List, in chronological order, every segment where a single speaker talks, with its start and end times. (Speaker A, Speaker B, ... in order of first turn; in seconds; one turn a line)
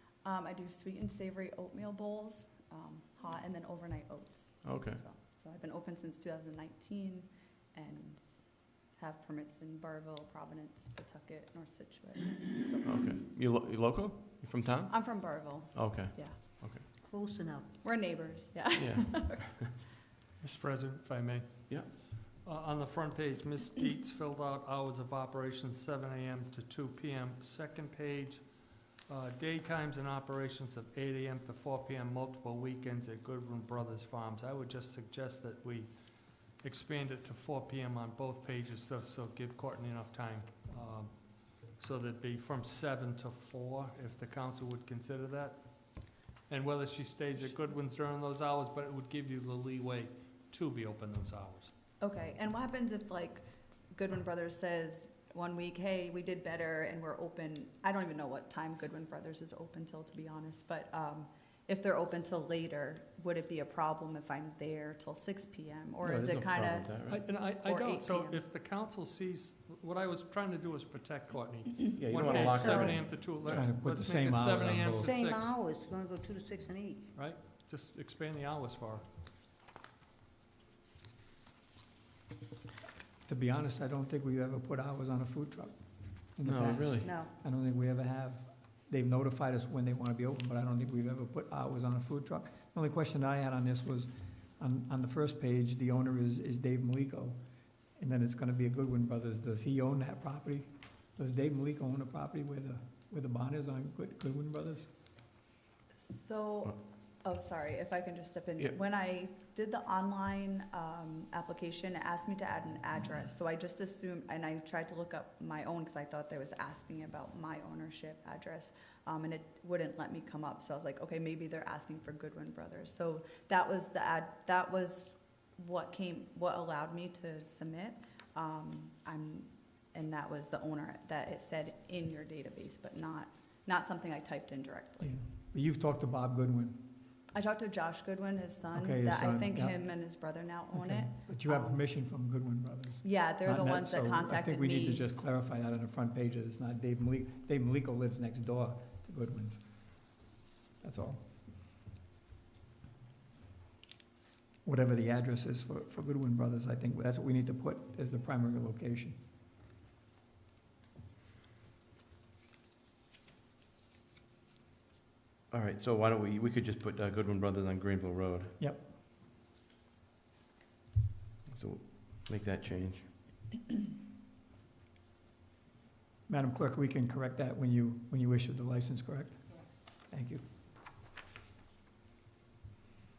Speaker A: 0.2-12.9
Speaker B: 4.6-5.0
Speaker B: 12.8-16.8
Speaker A: 14.9-16.4
Speaker C: 17.0-17.8
Speaker A: 17.8-19.7
Speaker B: 18.7-19.7
Speaker D: 20.4-51.7
Speaker A: 52.0-66.9
Speaker B: 66.0-67.2
Speaker D: 67.1-75.5
Speaker A: 67.5-68.4
Speaker B: 72.0-73.0
Speaker C: 72.2-73.0
Speaker E: 73.3-75.1
Speaker C: 75.0-77.1
Speaker D: 77.1-79.0
Speaker E: 83.2-97.4
Speaker B: 86.4-87.1
Speaker C: 86.6-87.3
Speaker E: 98.0-104.9
Speaker A: 106.0-135.1
Speaker E: 135.0-136.9
Speaker A: 137.3-141.8
Speaker E: 138.7-150.1
Speaker A: 143.0-145.0
Speaker E: 150.8-151.2
Speaker E: 154.6-159.2
Speaker B: 165.5-168.5
Speaker E: 168.6-168.9
Speaker B: 171.5-173.1
Speaker E: 176.3-180.4